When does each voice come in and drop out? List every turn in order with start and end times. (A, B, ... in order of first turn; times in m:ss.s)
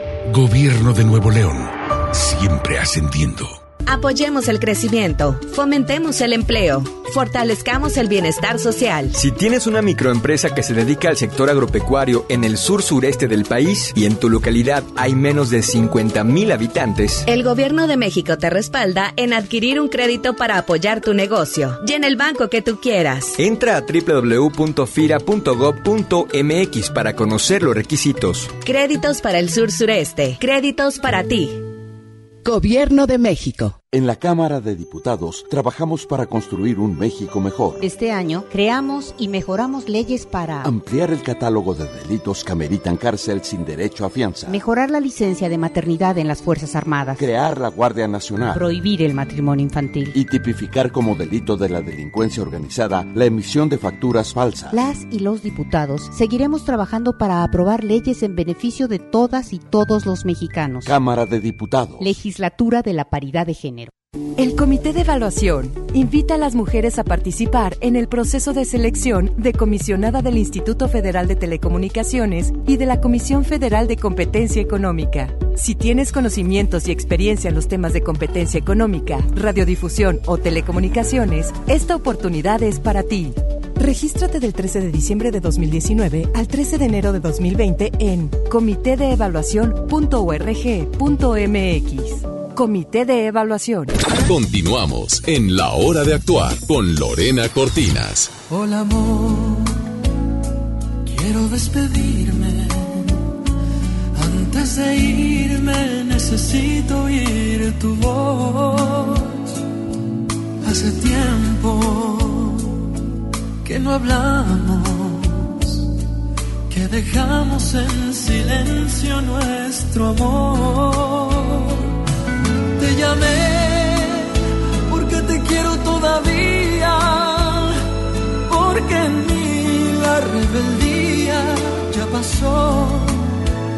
0:00.3-0:03.6 A
0:03.9-0:09.2 B
0:09.2-0:17.2 C
0:17.3-0:23.4 B
0:23.4-0:28.5 C
0:28.6-0:31.6 B
0:32.5-0:33.7 D
0:33.4-0:33.7 B
0:33.9-0:37.9 E
0:37.8-0:40.7 D
0:40.6-0:44.6 E
0:44.5-0:47.2 D
0:47.2-0:48.6 E
0:48.5-0:50.1 D
0:50.1-0:54.8 E
0:54.7-1:00.9 D
1:00.8-1:02.2 E
1:02.0-1:03.9 D
1:04.4-1:34.0 F
1:34.2-1:38.3 G
1:38.5-1:39.7 H
1:41.1-1:43.1 H
1:44.2-1:49.4 H
1:50.6-1:52.8 H
1:53.6-1:55.8 H
1:56.7-2:01.8 H
2:02.8-2:04.4 H
2:04.9-2:07.8 H
2:08.5-2:13.3 H